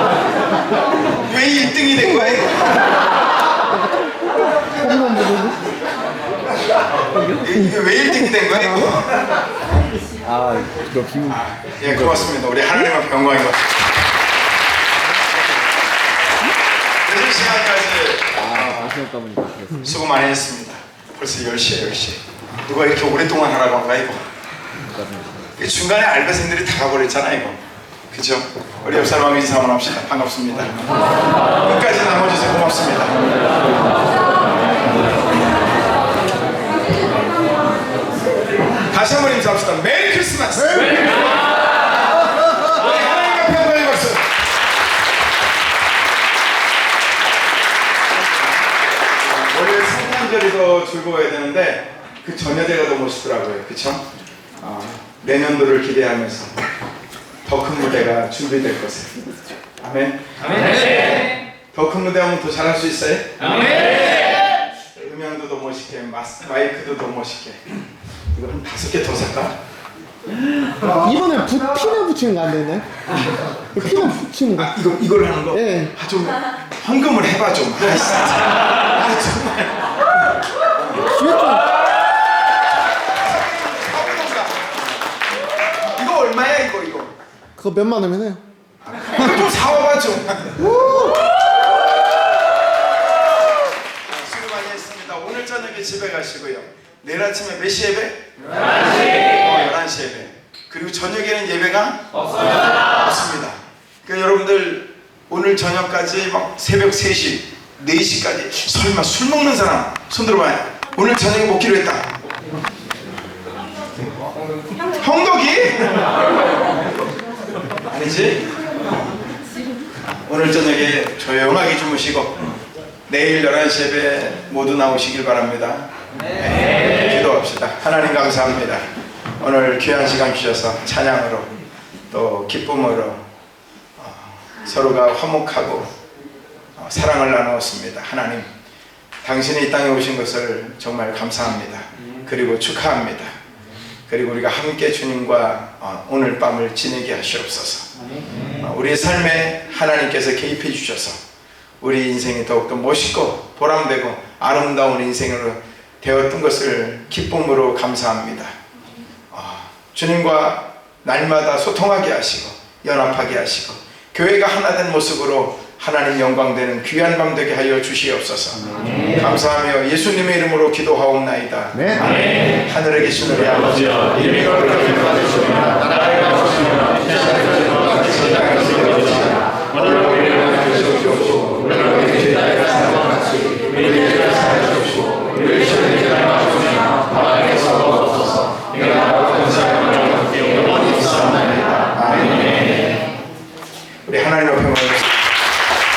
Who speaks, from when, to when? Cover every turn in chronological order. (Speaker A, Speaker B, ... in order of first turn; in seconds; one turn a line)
Speaker A: 1.2-2.8
Speaker B: 4.8-5.5
Speaker A: 7.3-9.2
Speaker C: 10.3-11.2
Speaker A: 11.2-13.6
Speaker A: 17.0-19.0
Speaker C: 18.5-19.7
Speaker A: 19.7-24.2
Speaker A: 25.5-27.6
Speaker A: 28.1-30.9
Speaker A: 31.6-33.3
Speaker A: 38.9-41.4
Speaker A: 42.7-44.3
Speaker A: 49.2-54.0
Speaker A: 54.6-56.5
Speaker A: 57.4-59.2
Speaker A: 59.8-61.0
Speaker A: 61.7-67.6
Speaker A: 68.3-69.5
Speaker B: 70.8-72.9
Speaker B: 73.7-74.7
Speaker A: 73.8-79.8
Speaker B: 75.5-75.9
Speaker A: 80.8-81.1
Speaker B: 81.2-81.6
Speaker A: 83.1-84.7
Speaker A: 85.8-87.1
Speaker B: 87.6-88.4
Speaker A: 89.0-90.9
Speaker B: 90.7-91.1
Speaker A: 94.0-98.2
Speaker A: 99.1-102.0
Speaker A: 102.8-112.1
Speaker A: 115.0-115.9
Speaker A: 117.9-118.5
Speaker A: 120.2-122.4
Speaker A: 123.1-128.8
Speaker A: 129.4-131.5
Speaker A: 132.1-133.2
Speaker A: 134.0-135.9
Speaker A: 136.8-138.5
Speaker A: 139.2-143.3
Speaker A: 144.1-147.9
Speaker A: 148.4-151.2
Speaker A: 151.8-158.6
Speaker A: 159.3-168.6
Speaker A: 169.1-175.7
Speaker A: 176.4-183.2
Speaker A: 183.7-186.2
Speaker A: 189.3-189.9
Speaker A: 190.5-192.8
Speaker A: 194.1-195.2